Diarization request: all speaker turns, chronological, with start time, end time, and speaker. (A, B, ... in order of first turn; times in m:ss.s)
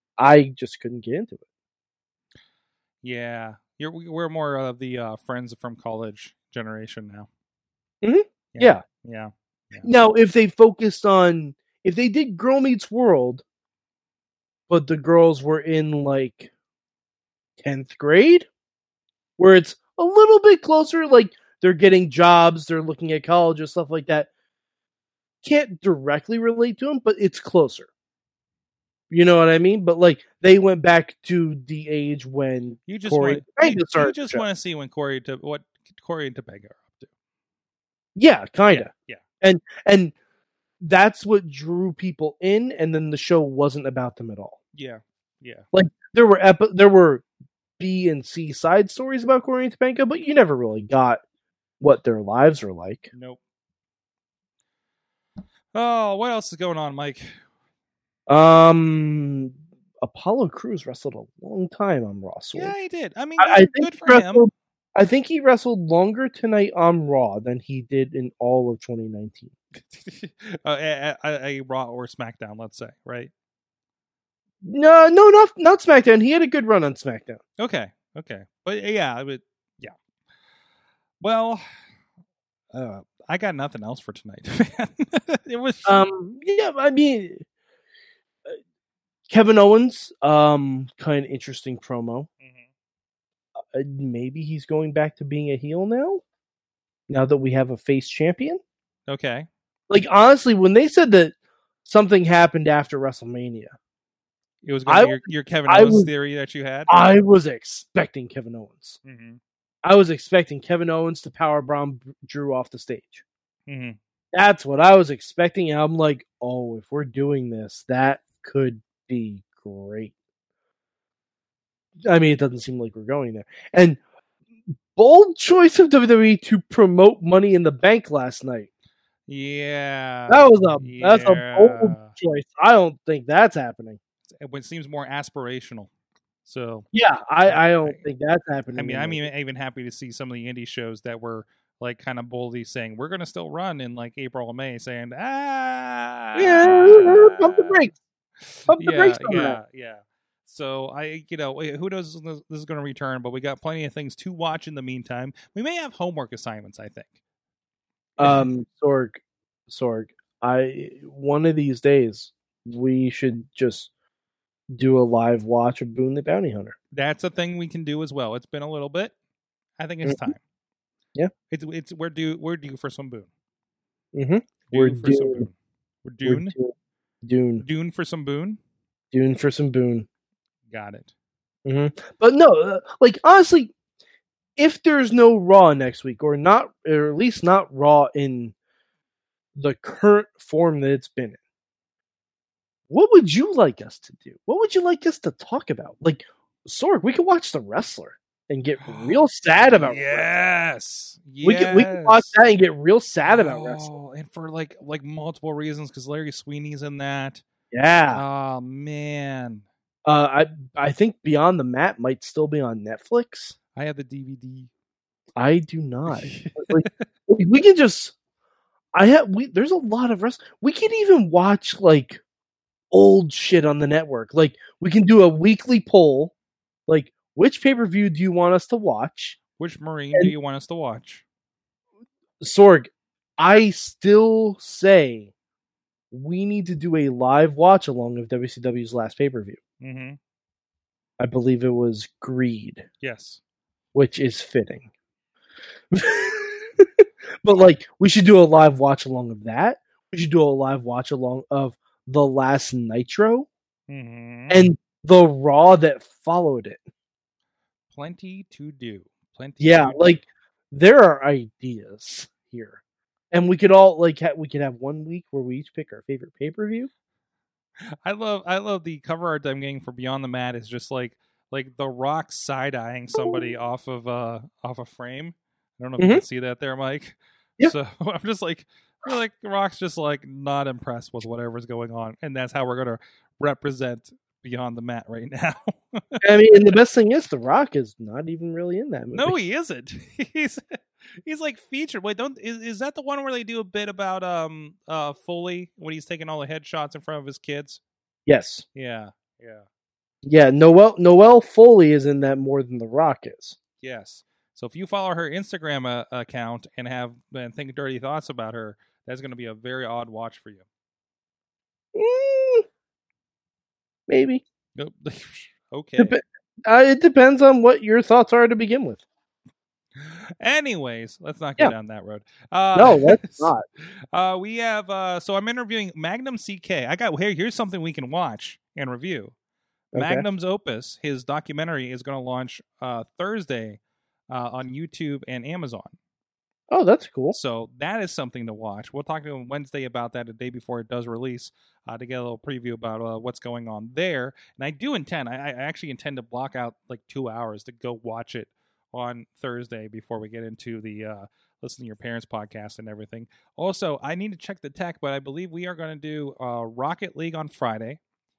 0:00.2-0:01.4 A
0:03.0-0:07.3 B
0:08.0-0:08.8 A
0:08.5-0:09.9 B
0:09.8-0:13.4 A
0:14.7-0:16.5 A
0:17.6-0:18.5 A
0:19.4-0:24.3 A
0:25.4-0:27.9 A
0:29.1-0:34.4 A
0:32.9-0:37.1 B
0:38.1-0:38.9 A
0:38.7-0:39.2 B
0:39.4-0:40.1 A
0:40.8-0:44.6 A
0:44.7-0:45.6 B
0:45.7-0:47.2 A
0:47.8-0:51.2 A
0:51.8-0:53.1 A
0:53.1-0:53.4 B
0:55.7-0:57.3 B
0:58.3-1:02.8 A
1:02.6-1:04.4 B
1:03.4-1:09.5 A
1:09.8-1:13.3 B
1:14.6-1:17.4 A
1:17.6-1:19.9 B
1:21.2-1:21.6 B
1:22.7-1:26.1 B
1:25.9-1:27.4 A
1:29.3-1:32.3 A
1:32.4-1:32.7 B
1:33.7-1:36.2 A
1:37.1-1:38.6 A
1:39.1-1:39.5 B
1:39.9-1:43.8 A
1:44.6-1:46.9 B
1:44.9-1:46.1 A
1:46.9-1:49.0 A
1:49.0-1:49.4 B
1:49.8-1:53.2 A
1:53.7-1:54.0 B
1:54.3-2:00.1 A
2:02.0-2:04.0 A
2:04.9-2:08.7 A
2:09.3-2:12.1 B
2:10.3-2:14.0 A
2:14.3-2:15.9 B
2:16.4-2:16.9 B
2:16.9-2:19.3 A
2:17.4-2:18.0 B
2:18.8-2:27.9 B
2:26.4-2:27.9 A
2:28.4-2:37.1 B
2:28.7-2:29.6 A
2:38.2-2:43.9 A
2:44.7-2:46.8 A
2:46.9-2:49.1 B
2:49.8-2:50.4 B
2:50.0-2:50.3 A
2:51.5-2:53.3 B
2:54.1-2:55.5 A
2:54.7-2:56.6 B
2:56.2-2:57.6 A
2:57.6-2:58.6 B
2:59.1-3:00.1 A
3:00.7-3:01.1 B
3:01.6-3:03.7 A
3:04.6-3:08.5 A
3:09.6-3:11.4 A
3:12.9-3:20.3 A
3:18.8-3:22.3 B
3:21.4-3:23.9 A
3:23.2-3:27.4 B
3:27.7-3:28.2 A
3:28.1-3:29.6 B
3:30.0-3:33.6 A
3:33.7-3:34.7 B
3:35.4-3:38.1 A
3:36.1-3:36.9 B
3:38.9-3:42.2 A
3:42.9-3:46.3 A
3:46.9-3:49.4 A
3:49.6-3:51.2 B
3:52.4-3:55.3 A
3:56.1-3:59.6 A
3:59.8-4:00.2 B
4:01.2-4:02.8 A
4:03.0-4:03.4 B
4:03.9-4:04.9 A
4:05.9-4:13.5 A
4:13.9-4:14.7 B
4:14.5-4:16.8 A
4:17.9-4:20.2 B
4:19.6-4:22.8 A
4:23.3-4:26.9 A
4:28.0-4:46.6 B
4:33.2-4:33.5 A
4:36.0-4:36.2 A
4:46.2-4:49.4 A
4:49.1-4:57.8 B
4:58.3-4:58.6 A
4:58.8-4:59.6 B
5:00.2-5:03.6 A
5:03.8-5:10.6 B
5:11.9-5:12.6 A
5:14.1-5:14.4 A
5:14.8-5:16.1 B
5:16.0-5:19.0 A
5:20.0-5:29.3 B
5:22.7-5:23.6 A
5:29.9-5:30.2 A
5:29.9-5:35.9 B
5:36.7-5:37.4 A
5:37.3-5:58.0 B